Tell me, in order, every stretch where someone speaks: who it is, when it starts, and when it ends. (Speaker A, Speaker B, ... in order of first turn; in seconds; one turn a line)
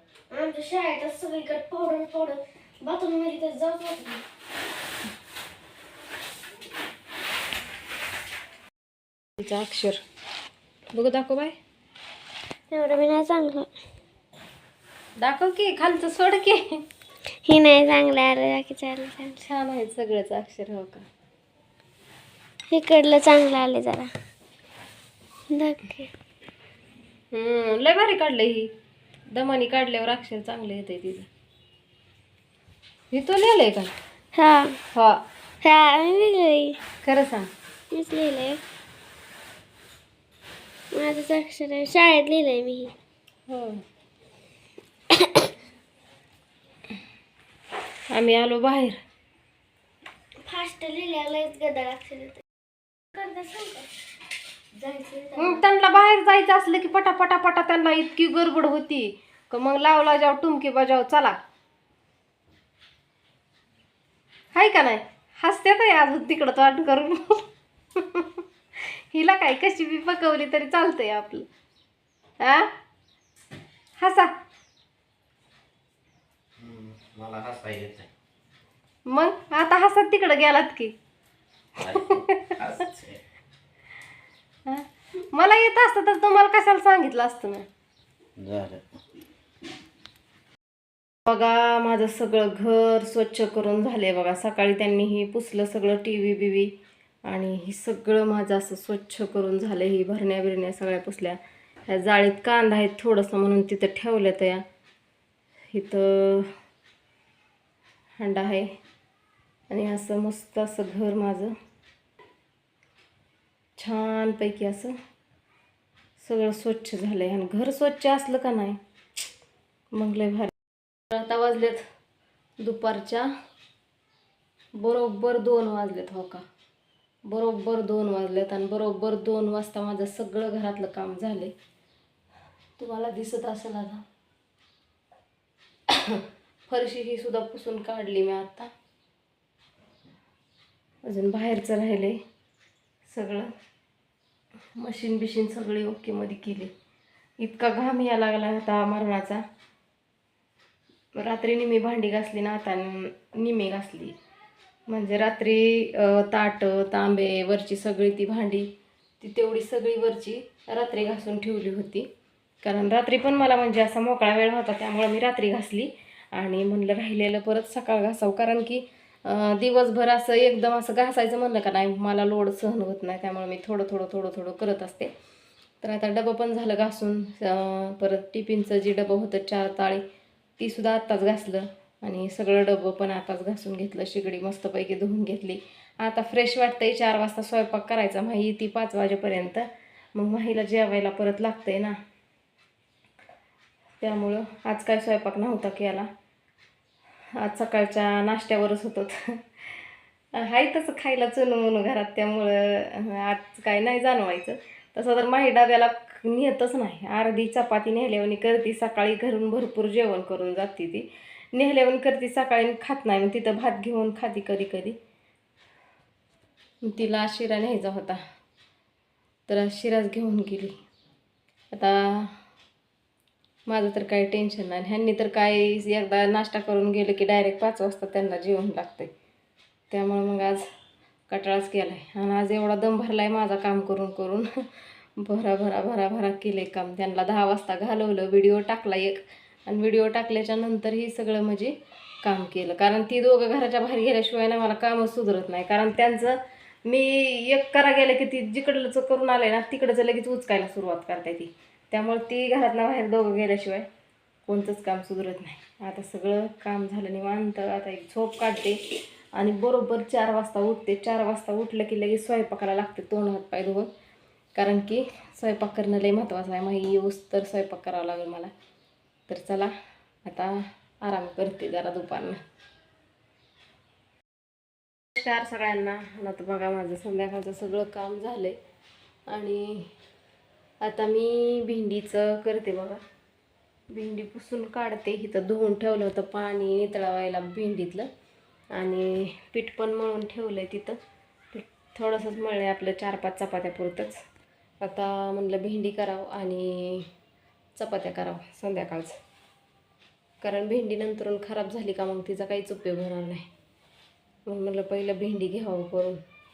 Speaker A: 0.3-4.2
Speaker B: 9.4-10.0
Speaker B: 10.9-11.6
Speaker A: 12.7-13.7
Speaker B: 15.2-16.8
Speaker A: 17.4-19.4
Speaker B: 19.4-21.0
Speaker A: 22.7-24.1
Speaker A: 25.5-26.1
Speaker B: 27.3-28.7
Speaker B: 29.3-31.3
Speaker B: 33.1-33.9
Speaker A: 34.3-34.8
Speaker B: 34.9-35.2
Speaker A: 35.6-36.8
Speaker B: 37.0-37.5
Speaker A: 37.9-38.6
Speaker A: 40.9-42.9
Speaker B: 43.5-43.8
Speaker A: 45.1-45.5
Speaker B: 48.1-49.0
Speaker A: 50.4-52.4
Speaker A: 53.1-53.9
Speaker A: 54.7-55.6
Speaker B: 55.4-61.4
Speaker B: 64.5-67.4
Speaker B: 68.0-71.5
Speaker B: 72.4-72.7
Speaker B: 74.0-74.3
Speaker C: 76.6-78.1
Speaker B: 79.1-80.9
Speaker C: 81.8-83.2
Speaker B: 81.9-82.6
Speaker B: 84.7-87.7
Speaker C: 88.4-88.8
Speaker B: 91.2-96.7
Speaker B: 97.3-104.6
Speaker B: 105.7-106.5
Speaker B: 108.2-108.7
Speaker B: 109.7-111.5
Speaker B: 113.8-115.0
Speaker B: 116.2-118.8
Speaker B: 119.9-120.5
Speaker B: 121.1-121.8
Speaker B: 122.6-123.3
Speaker B: 124.8-126.4
Speaker B: 127.3-131.5
Speaker B: 132.8-134.0
Speaker B: 135.9-138.7
Speaker B: 141.1-142.2
Speaker B: 143.1-143.5
Speaker B: 144.8-146.7
Speaker B: 147.4-149.4
Speaker B: 151.2-154.2
Speaker B: 154.9-158.7
Speaker B: 159.2-162.1
Speaker B: 162.6-175.1
Speaker B: 175.8-180.0
Speaker B: 180.6-191.9
Speaker B: 194.0-196.1
Speaker B: 197.4-199.4
Speaker B: 200.3-215.0
Speaker B: 216.8-218.2
Speaker B: 219.5-220.8
Speaker B: 221.7-222.4
Speaker B: 223.7-229.1
Speaker B: 229.9-230.6
Speaker B: 231.3-234.5
Speaker B: 235.2-253.9
Speaker B: 254.4-258.8
Speaker B: 259.4-263.9
Speaker B: 264.5-268.5
Speaker B: 269.3-269.7
Speaker B: 270.2-272.4
Speaker B: 275.1-278.6
Speaker B: 279.3-279.9
Speaker B: 280.8-283.0
Speaker B: 283.9-288.1
Speaker B: 288.7-291.0
Speaker B: 291.5-294.2
Speaker B: 294.8-297.1
Speaker B: 297.7-299.2
Speaker B: 300.4-303.4
Speaker B: 304.5-306.2